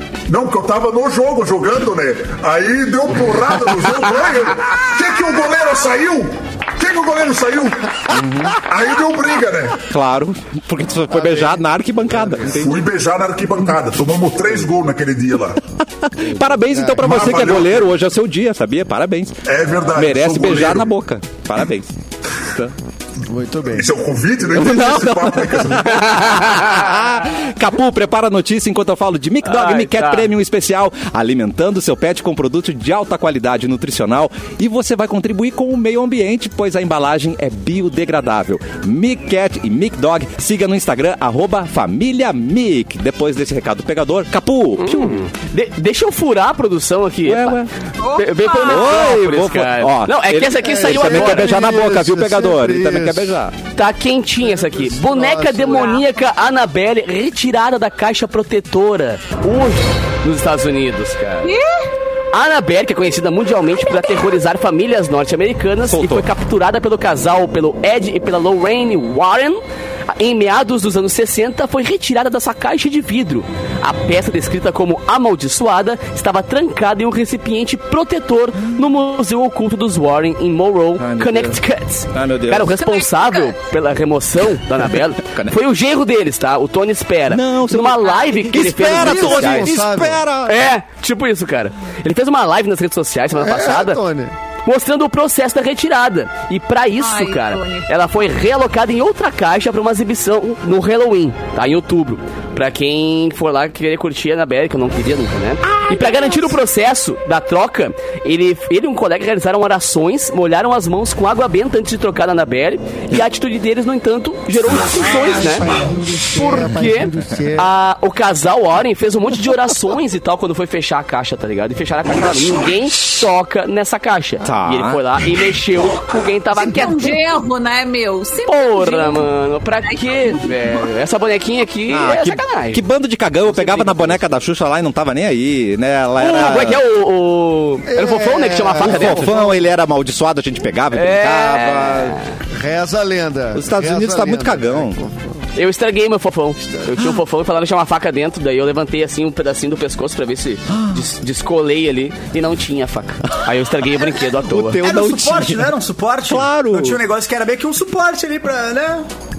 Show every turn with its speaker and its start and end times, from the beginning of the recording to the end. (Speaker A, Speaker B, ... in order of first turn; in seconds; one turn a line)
Speaker A: 0.3-9.8
Speaker B: 8.1-8.6
Speaker B: 9.8-12.8
Speaker C: 11.1-12.4
Speaker A: 12.4-15.6
Speaker B: 16.0-19.4
Speaker C: 16.7-17.0
Speaker A: 17.0-17.9
Speaker A: 19.4-20.9
Speaker B: 19.9-21.9
Speaker C: 23.2-23.9
Speaker A: 23.6-26.3
Speaker B: 24.5-45.2
Speaker D: 26.4-26.7
Speaker D: 29.4-30.3
Speaker D: 44.8-51.5
Speaker B: 47.2-47.7
Speaker E: 48.0-49.4
Speaker B: 48.6-53.5
Speaker C: 50.6-53.4
Speaker D: 53.8-61.5
Speaker C: 54.5-55.9
Speaker E: 55.7-56.1
Speaker E: 61.4-61.9
Speaker D: 62.3-89.7
Speaker B: 65.9-66.3
Speaker B: 81.0-81.6
Speaker B: 82.1-82.8
Speaker E: 82.8-83.5
Speaker B: 85.2-85.5
Speaker B: 87.3-90.7
Speaker C: 88.8-90.2
Speaker D: 90.4-94.0
Speaker C: 93.3-94.3
Speaker D: 94.6-115.7
Speaker E: 97.0-97.9
Speaker B: 105.8-106.2
Speaker C: 115.2-117.7
Speaker D: 116.3-127.1
Speaker B: 124.4-125.0
Speaker E: 126.5-129.2
Speaker D: 128.5-132.8
Speaker E: 129.8-130.5
Speaker B: 131.9-136.8
Speaker D: 133.5-134.2
Speaker D: 136.2-139.4
Speaker C: 137.8-139.6
Speaker B: 138.8-142.2
Speaker D: 140.9-142.2
Speaker C: 142.5-145.4
Speaker B: 143.5-145.0
Speaker D: 145.5-154.8
Speaker B: 150.7-151.0
Speaker B: 154.4-155.7
Speaker F: 154.8-159.1
Speaker B: 156.2-157.0